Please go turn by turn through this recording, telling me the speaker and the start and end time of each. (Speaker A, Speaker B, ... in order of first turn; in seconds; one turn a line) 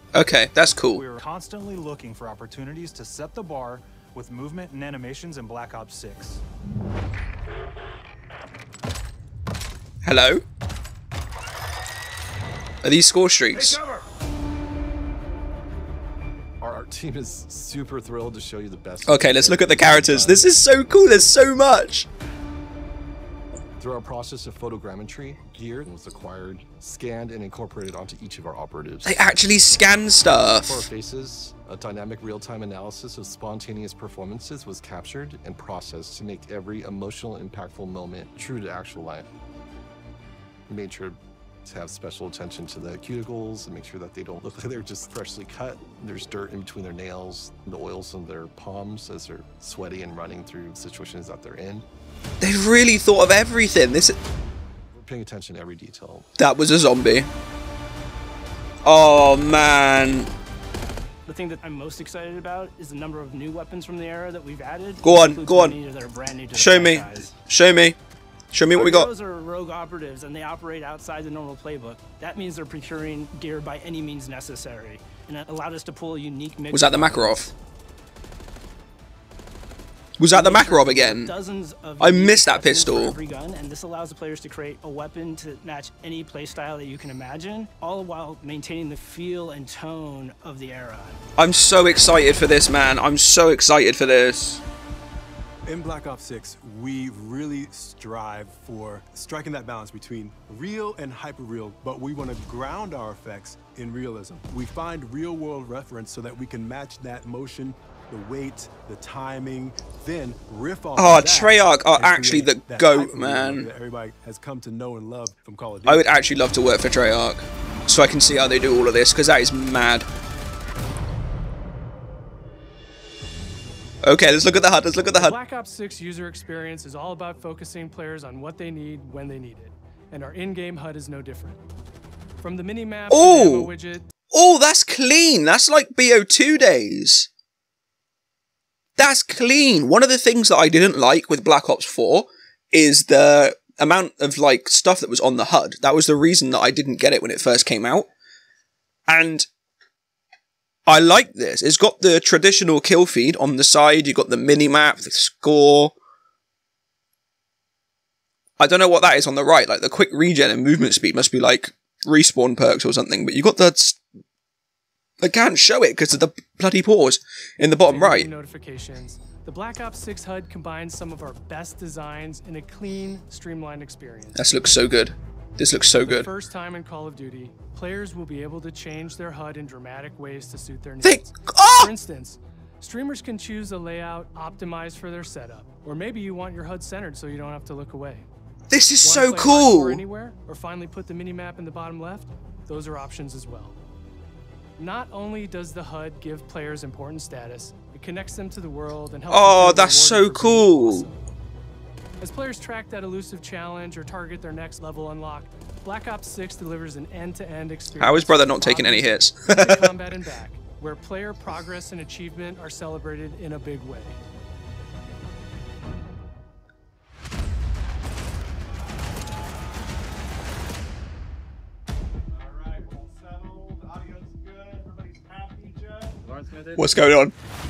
Speaker A: 0.1-1.0
Speaker B: 0.9-6.4
Speaker A: 10.0-10.4
Speaker A: 12.8-13.8
Speaker C: 16.6-20.4
Speaker A: 19.1-22.1
Speaker C: 23.8-29.1
Speaker A: 29.1-30.9
Speaker C: 30.7-39.3
Speaker C: 40.7-41.1
Speaker C: 41.7-51.8
Speaker A: 52.4-54.2
Speaker C: 55.0-56.2
Speaker A: 56.4-57.3
Speaker A: 58.9-60.3
Speaker D: 61.2-67.3
Speaker A: 65.0-65.8
Speaker A: 66.5-68.0
Speaker A: 68.5-69.1
Speaker D: 68.7-77.5
Speaker A: 76.7-77.5
Speaker A: 80.2-81.3
Speaker D: 80.3-91.2
Speaker A: 82.0-83.2
Speaker A: 91.4-94.6
Speaker E: 95.7-116.0
Speaker A: 111.0-113.7
Speaker A: 115.9-120.0
Speaker A: 124.0-125.4
Speaker F: 125.1-131.6
Speaker F: 132.4-134.1
Speaker A: 133.1-133.7
Speaker A: 134.3-137.3
Speaker A: 139.0-148.1
Speaker A: 149.1-149.5
Speaker A: 150.9-155.9
Speaker A: 158.6-164.0
Speaker A: 165.2-168.3
Speaker F: 167.9-174.5
Speaker A: 174.3-176.3
Speaker F: 176.0-188.2
Speaker A: 181.0-181.9
Speaker A: 188.7-190.0
Speaker F: 189.0-193.8
Speaker F: 194.8-201.2
Speaker A: 199.3-201.1
Speaker F: 202.2-214.2
Speaker A: 208.0-209.9
Speaker A: 226.8-227.3